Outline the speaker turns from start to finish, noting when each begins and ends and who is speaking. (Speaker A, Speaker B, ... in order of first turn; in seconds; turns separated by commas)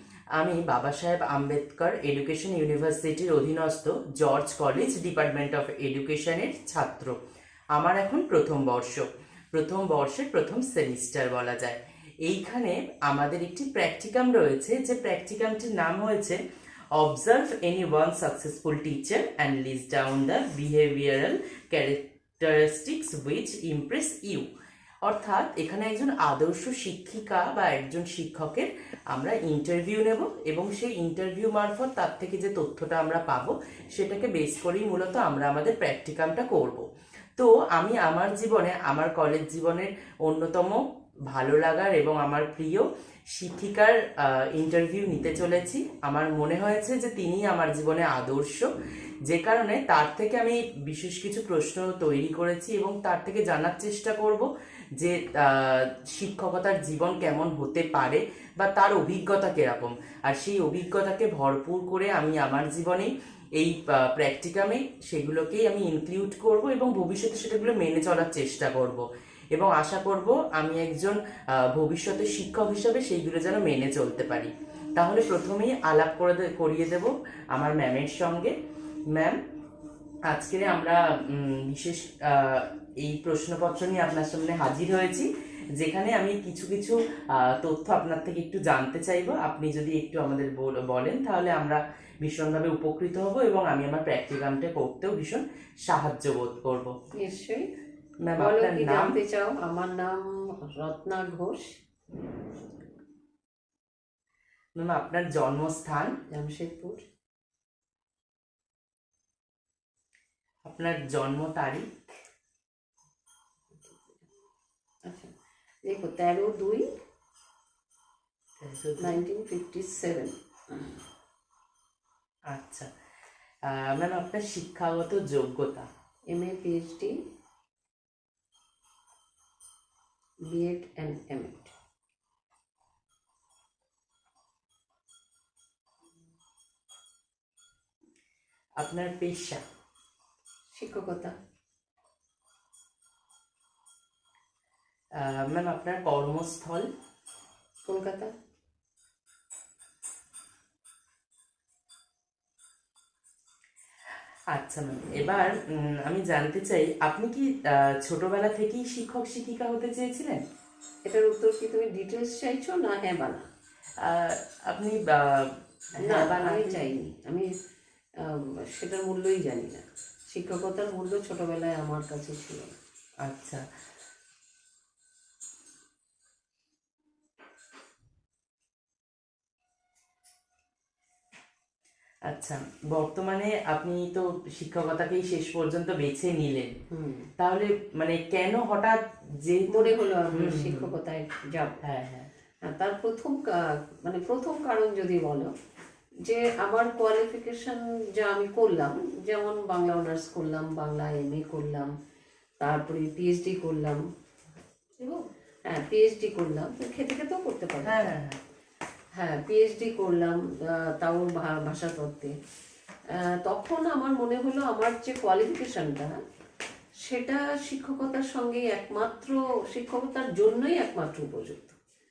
Speaker A: 0.4-7.1, Speaker A: 7.7-16.4, Speaker A: 16.9-24.4, Speaker A: 25.0-48.7, Speaker A: 49.2-78.5, Speaker A: 80.3-96.9, Speaker B: 97.1-97.7, Speaker A: 98.2-99.2, Speaker B: 98.4-101.8, Speaker A: 104.8-106.2, Speaker B: 106.3-107.0, Speaker A: 110.7-112.1, Speaker B: 115.0-115.3, Speaker B: 115.8-116.9, Speaker A: 118.6-119.2, Speaker B: 119.0-121.0, Speaker A: 122.5-122.9, Speaker A: 123.7-125.9, Speaker B: 126.3-127.2, Speaker B: 130.4-131.7, Speaker A: 138.8-139.6, Speaker B: 140.7-141.3, Speaker A: 145.2-146.9, Speaker B: 147.8-148.3, Speaker A: 154.5-160.4, Speaker B: 161.1-163.5, Speaker A: 164.0-166.9, Speaker B: 166.0-167.5, Speaker B: 168.2-172.7, Speaker A: 173.2-173.6, Speaker A: 182.3-186.8, Speaker B: 186.9-187.3, Speaker A: 187.4-190.9, Speaker B: 189.7-191.8, Speaker A: 191.8-192.3, Speaker B: 192.6-195.5, Speaker B: 196.2-201.9, Speaker B: 202.6-204.0, Speaker B: 205.0-208.1, Speaker A: 207.8-208.4, Speaker B: 209.2-212.3, Speaker B: 213.1-216.1, Speaker B: 217.0-221.8